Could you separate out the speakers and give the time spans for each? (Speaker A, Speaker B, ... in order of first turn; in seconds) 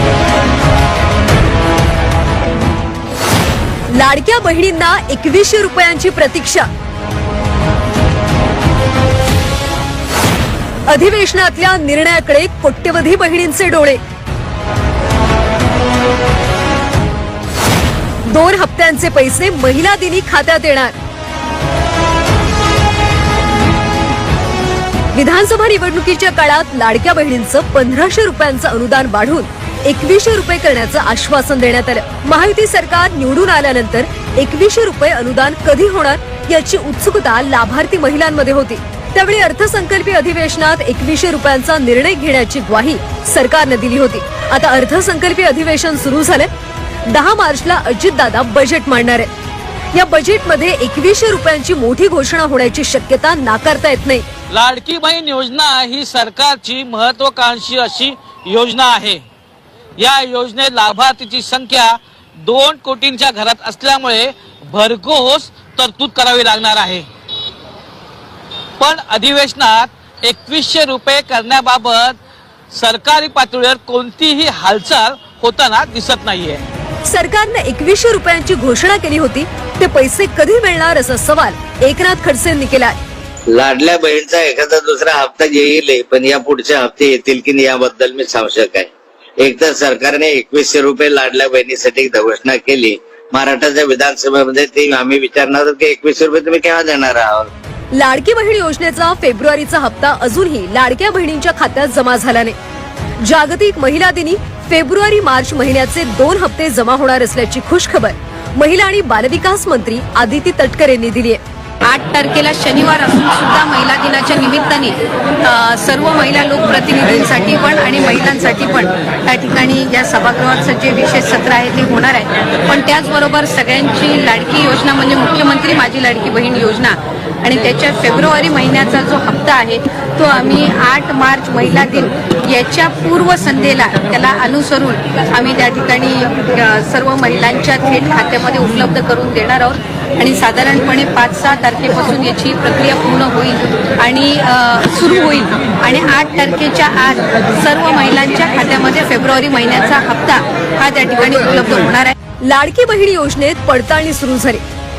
Speaker A: 4.0-6.7, 10.9-14.0, 18.3-20.9, 25.1-46.5, 47.1-49.3, 49.9-54.2, 77.1-82.9, 97.9-102.5, 103.2-111.4, 152.4-154.6
Speaker B: 54.5-59.2, 60.0-67.0, 68.8-72.2, 72.7-76.6
Speaker C: 83.5-97.5
Speaker D: 111.8-152.1